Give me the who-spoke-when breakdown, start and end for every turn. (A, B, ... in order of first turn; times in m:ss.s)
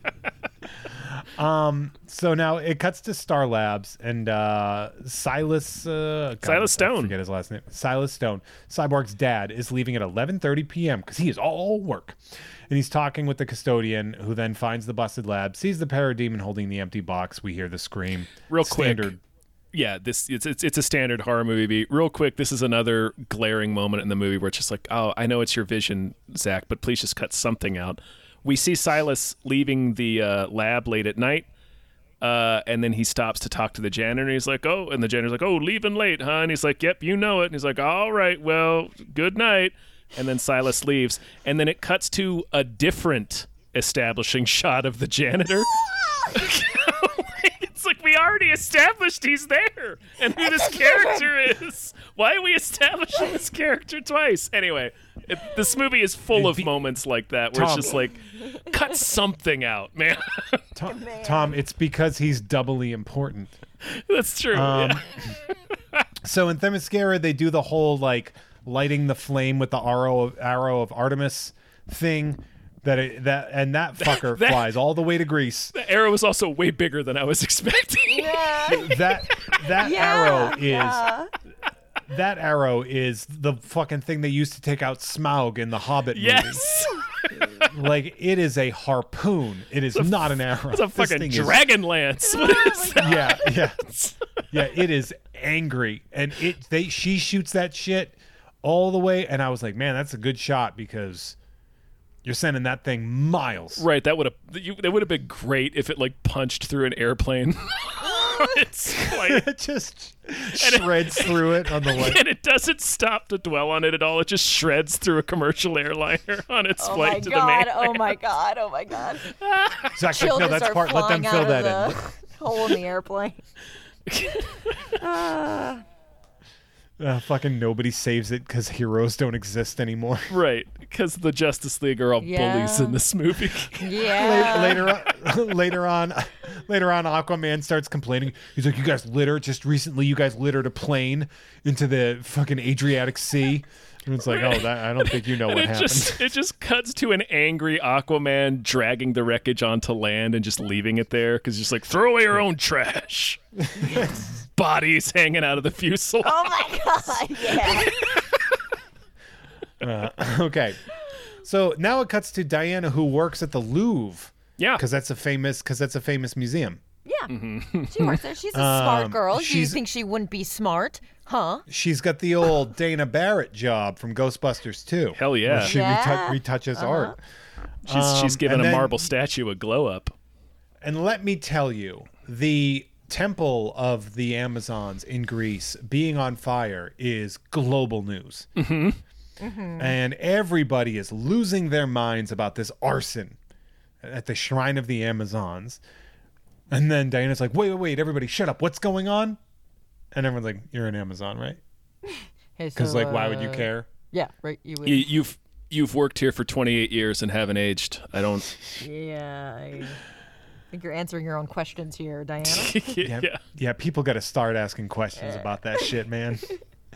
0:00.9-0:19.2 A
0:06.4-0:07.1 B
0:18.5-0:19.1 B
0:19.7-0:31.5 B
0:32.2-1:00.6 B
0:50.5-0:51.3 C
0:56.3-0:56.7 A
0:57.5-0:58.0 A
1:00.8-1:03.6 A
1:00.9-1:01.6 C
1:03.8-1:05.2 B
1:04.5-1:05.2 A
1:06.2-1:15.7 A
1:14.0-1:14.8 B
1:15.7-1:18.8 B
1:18.1-1:19.0 C
1:18.7-1:21.1 A
1:19.8-1:21.3 C
1:22.1-1:26.7 A
1:26.1-1:27.4 B
1:27.3-1:31.7 A
1:29.9-1:34.7 B
1:32.2-1:33.6 C
1:33.0-1:33.8 A
1:34.5-1:41.4 A
1:42.2-1:43.9 A
1:43.8-1:49.4 B
1:48.0-1:48.6 C
1:49.0-1:52.2 A
1:50.5-1:58.1 B
1:56.8-1:59.3 C
1:59.3-2:00.0 B
2:00.0-2:02.1 A
2:00.1-2:03.4 C
2:04.1-2:04.8 B
2:05.0-2:05.8 C
2:07.0-2:10.3 A
2:10.3-2:14.1 B
2:12.2-2:13.0 C
2:13.8-2:14.9 C
2:14.0-2:26.3 A
2:24.3-2:33.4 B
2:33.7-2:34.3 A
2:33.8-2:34.1 C
2:34.6-2:36.8 B
2:36.2-2:38.3 C
2:37.3-2:38.4 B
2:39.8-2:40.8 A
2:41.4-2:46.8 A
2:44.6-2:44.8 B
2:47.0-2:47.3 C
2:47.3-2:48.2 B
2:47.9-2:51.7 C
2:48.5-2:49.8 A
2:51.7-2:57.2 A
2:55.1-2:55.8 B
2:55.6-2:57.2 C
2:57.8-2:59.1 A
2:57.9-3:00.1 B
3:00.8-3:08.5 A
3:08.6-3:09.0 B
3:09.4-3:10.0 C
3:09.8-3:13.4 A
3:14.0-3:15.8 A
3:16.7-3:19.4 A
3:20.1-3:21.6 A
3:22.1-3:25.1 C
3:22.8-3:23.9 A
3:24.8-3:28.6 B
3:28.8-3:30.0 C
3:30.7-3:33.0 C
3:32.4-3:33.4 B
3:33.0-3:36.5 A
3:35.2-3:35.4 C